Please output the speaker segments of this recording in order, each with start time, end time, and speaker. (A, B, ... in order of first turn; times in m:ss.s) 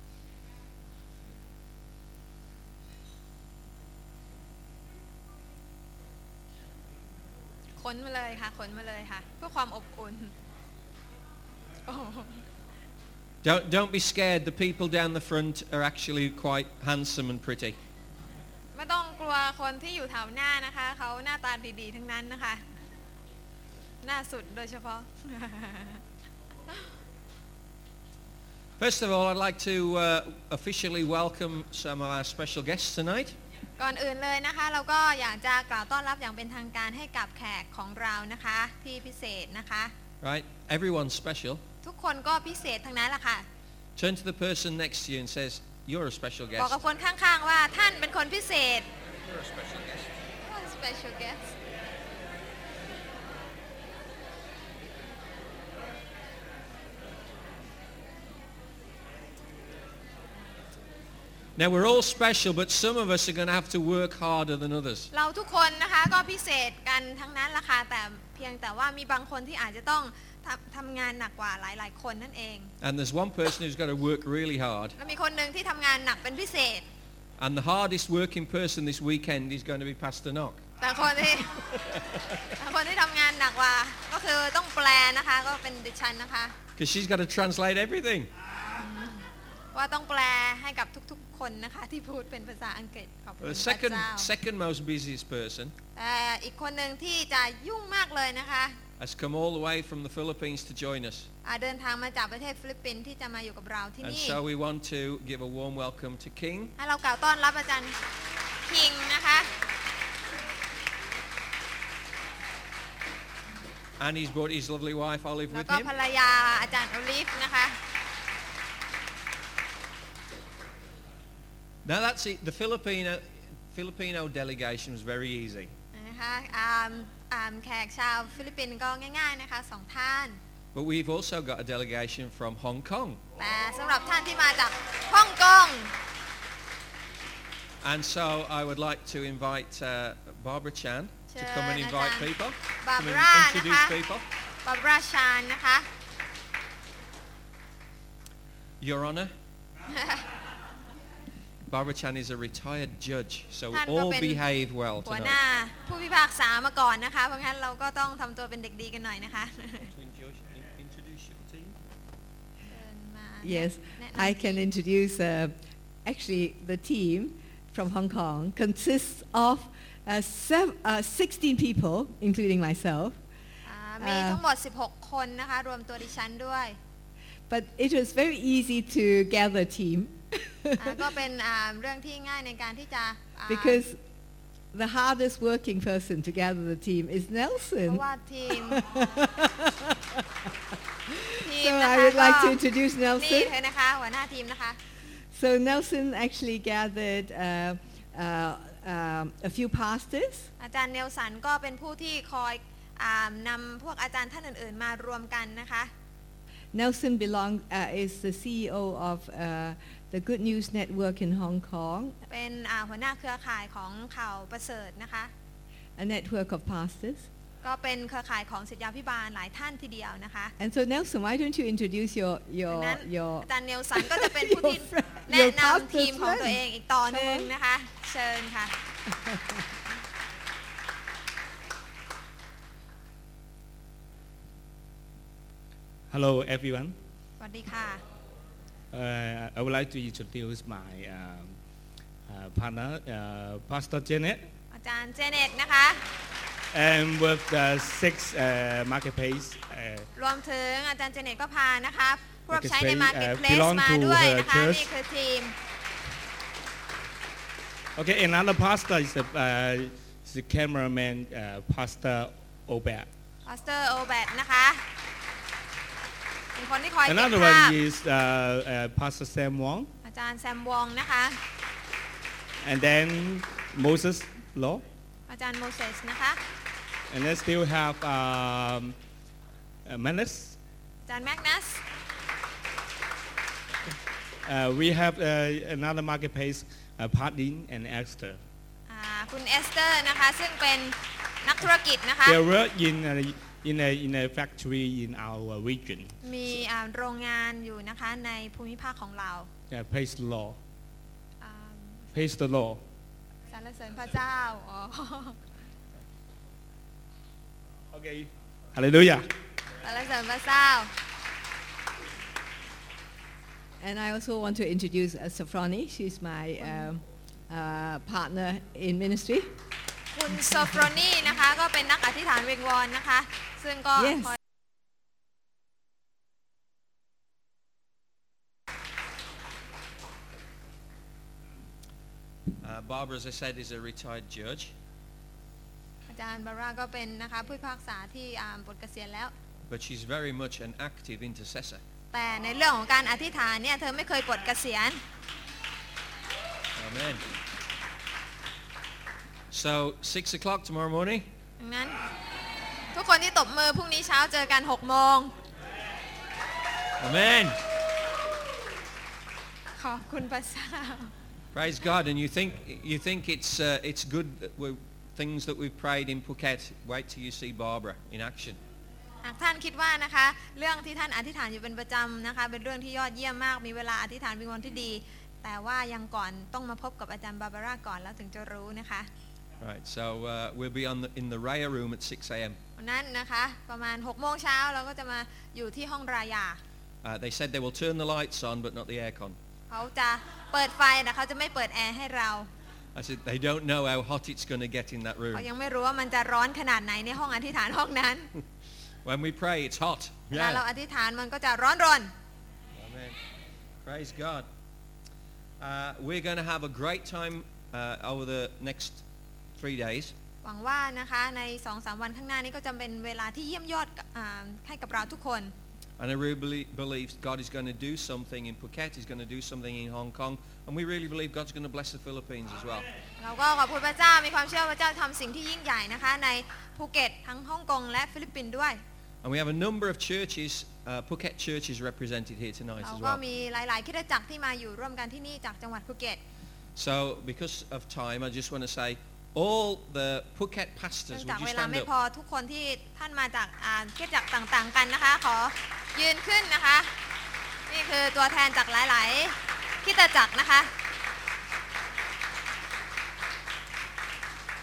0:07.8-0:10.3 A
0:11.8-0:12.4 A
0:13.4-0:17.8 B
0:18.7-0:22.6 A
0:24.0-0:26.0 A
0:28.8-0:33.4 B
0:33.8-0:39.9 A
0:40.2-0:41.6 B
0:41.8-0:43.4 A
0:44.0-0:46.8 B
0:46.6-0:48.9 A
0:49.2-0:50.1 B
0:50.4-0:51.6 A
1:01.6-1:05.1 B
1:05.1-1:12.7 A
1:12.8-1:15.0 B
1:15.0-1:16.8 A
1:17.4-1:20.6 B
1:20.8-1:21.6 A
1:22.5-1:26.5 A
1:26.8-1:28.3 B
1:28.8-1:34.3 A
1:33.4-1:35.7 B
1:36.0-1:38.8 A
1:39.0-1:41.3 B
1:41.4-1:44.4 A
1:44.0-1:46.8 B
1:46.8-1:48.0 A
1:48.6-1:49.5 A
1:54.0-1:55.9 B
1:55.5-1:57.8 A
2:01.8-2:05.7 B
2:05.9-2:10.4 A
2:10.7-2:13.2 B
2:13.4-2:16.0 A
2:17.8-2:24.2 B
2:21.3-2:24.0 A
2:24.6-2:25.9 A
2:28.8-2:29.3 B
2:29.9-2:30.2 A
2:31.7-2:35.4 B
2:33.7-2:34.4 A
2:35.0-2:39.9 A
2:39.8-2:41.8 B
2:42.7-2:44.7 A
2:43.4-2:53.2 C
2:53.6-2:56.8 A
2:54.0-2:54.4 C
2:57.5-3:01.0 C
3:00.8-3:03.8 A
3:03.5-3:04.0 C
3:04.7-3:10.2 C
3:07.8-3:08.8 A
3:11.1-3:13.5 C
3:11.4-3:12.6 A
3:13.1-3:14.8 A
3:15.3-3:20.5 C
3:20.6-3:25.9 A
3:26.7-3:32.2 C
3:32.3-3:35.3 A
3:36.0-3:37.3 C
3:37.6-3:40.5 A
3:40.6-3:47.5 C
3:42.7-3:48.7 A
3:56.1-3:56.9 D
3:57.4-3:58.0 A
3:58.9-4:01.6 D
4:02.3-4:04.4 D
4:04.7-4:06.0 A
4:06.7-4:10.0 D
4:10.1-4:15.5 A
4:12.5-4:14.9 D
4:18.0-4:23.1 D
4:23.4-4:24.8 A
4:26.5-4:27.8 A
4:27.0-4:29.9 D
4:30.0-4:31.4 A
4:32.6-4:34.8 D
4:35.3-4:36.4 A
4:37.1-4:38.9 D
4:39.8-4:40.6 D
4:41.0-4:41.8 A
4:44.4-4:48.4 D
4:48.9-4:52.4 A
4:52.2-4:56.1 D
4:56.2-4:59.5 A
4:59.7-5:00.6 D
5:01.4-5:02.3 A
5:02.1-5:02.8 D
5:03.5-5:05.4 A
5:07.9-5:09.3 D
5:09.8-5:10.9 A
5:13.8-5:19.6 C
5:16.6-5:16.9 A
5:20.1-5:24.4 A
5:24.0-5:24.4 C
5:32.6-5:34.7 B
5:36.1-5:39.3 A
5:39.7-5:41.8 B
5:42.1-5:45.0 A
5:46.8-5:47.2 B
5:49.5-5:51.3 B
5:51.6-5:52.0 A
5:52.9-5:55.3 A
5:57.0-5:57.6 B
5:59.7-6:01.1 A
6:01.5-6:08.6 B
6:09.2-6:19.1 A
6:19.6-6:22.6 B
6:22.8-6:26.6 A
6:27.0-6:29.4 B
6:29.7-6:32.5 A
6:32.9-6:35.4 B
6:35.3-6:38.3 A
6:39.0-6:40.6 B
6:40.3-6:42.1 A
6:42.8-6:43.2 B
6:43.8-6:44.5 B
6:45.6-6:49.0 B
6:49.6-6:50.1 B
6:50.4-6:55.5 A
6:56.0-7:02.9 B
7:03.2-7:08.8 A
7:09.2-7:13.2 B
7:12.8-7:16.2 A
7:16.8-7:21.9 B
7:21.1-7:26.9 A
7:27.7-7:30.7 A